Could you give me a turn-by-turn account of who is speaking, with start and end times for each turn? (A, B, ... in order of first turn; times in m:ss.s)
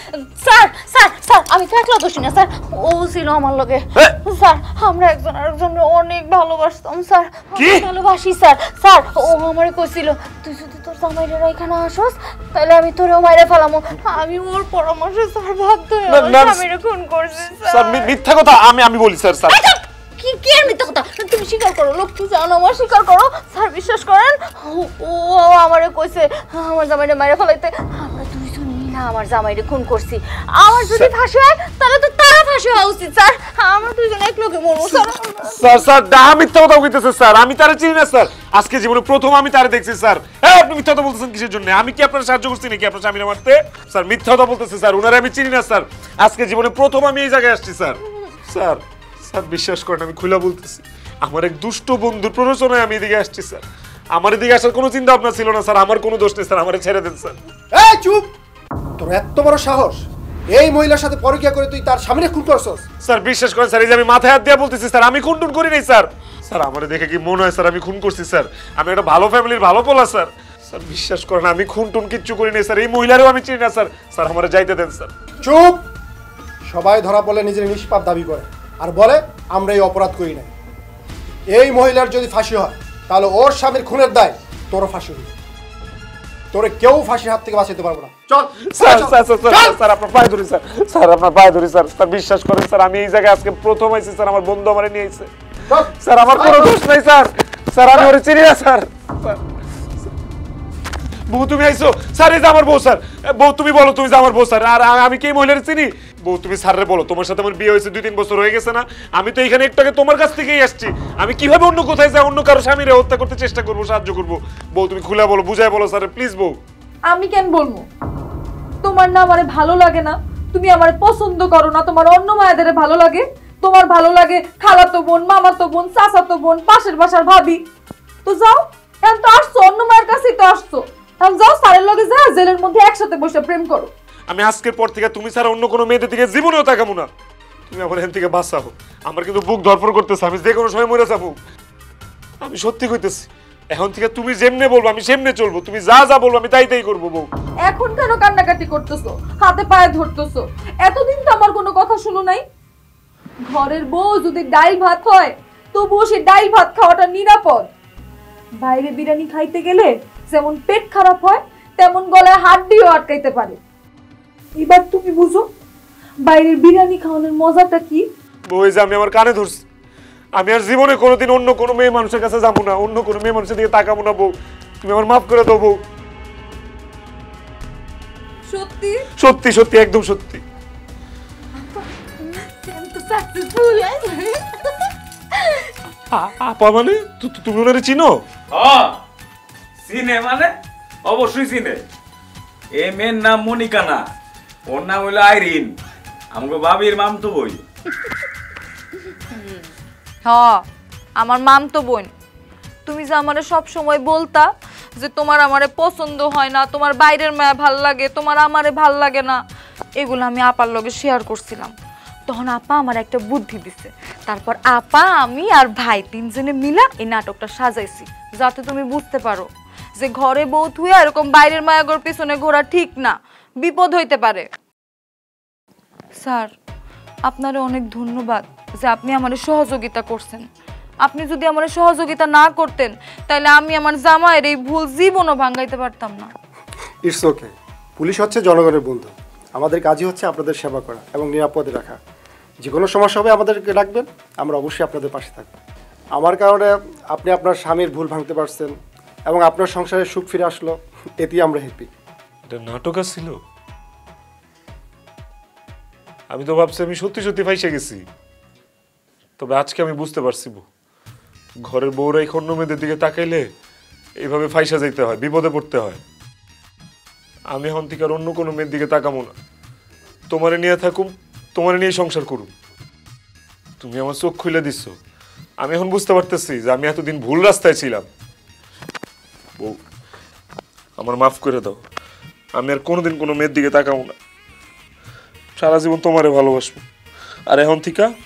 0:00.1-0:18.2 A
0:07.6-0:07.9 B
0:16.1-0:16.6 B
0:17.7-0:19.6 B
0:19.5-0:35.9 A
0:34.8-0:53.6 B
0:54.1-0:57.3 B
0:57.7-0:58.3 C
0:59.0-1:02.8 C
1:03.0-1:15.1 B
1:15.4-1:15.8 C
1:16.7-1:20.5 C
1:21.5-1:25.3 C
1:26.5-1:29.8 C
1:28.7-1:35.3 B
1:35.7-1:36.7 C
1:35.9-1:39.4 B
1:41.3-1:56.6 B
1:57.1-1:57.9 D
1:58.8-2:07.6 D
2:08.2-2:13.9 D
2:14.3-2:17.1 B
2:17.7-2:21.3 B
2:22.4-2:27.3 B
2:27.6-2:32.4 D
2:33.5-2:37.7 D
2:38.6-2:43.6 D
2:44.6-2:45.5 D
2:46.2-2:48.1 D
2:48.5-2:49.6 B
2:50.4-2:55.8 B
2:58.5-2:59.0 D
2:59.2-3:00.4 B
3:01.6-3:04.5 D
3:06.1-3:08.2 B
3:08.5-3:09.0 E
3:09.8-3:10.5 E
3:11.0-3:11.8 E
3:12.8-3:14.0 E
3:14.7-3:15.7 E
3:16.3-3:17.6 E
3:20.2-3:20.6 D
3:21.2-3:22.1 D
3:22.9-3:29.4 D
3:30.0-3:31.7 D
3:32.3-3:44.5 D
3:46.2-3:46.5 D
3:47.2-3:50.4 D
3:51.0-3:56.3 D
3:57.0-4:02.0 C
4:02.6-4:05.5 C
4:06.2-4:08.7 C
4:09.3-4:11.9 C
4:12.5-4:13.4 B
4:16.3-4:18.0 B
4:19.4-4:20.6 B
4:21.6-4:23.4 B
4:24.2-4:26.0 B
4:27.5-4:29.3 B
4:30.3-4:32.5 B
4:33.8-4:35.0 B
4:35.6-4:38.0 B
4:41.0-4:41.8 B
4:42.6-4:44.1 B
4:45.6-4:46.8 B
4:47.5-4:48.1 B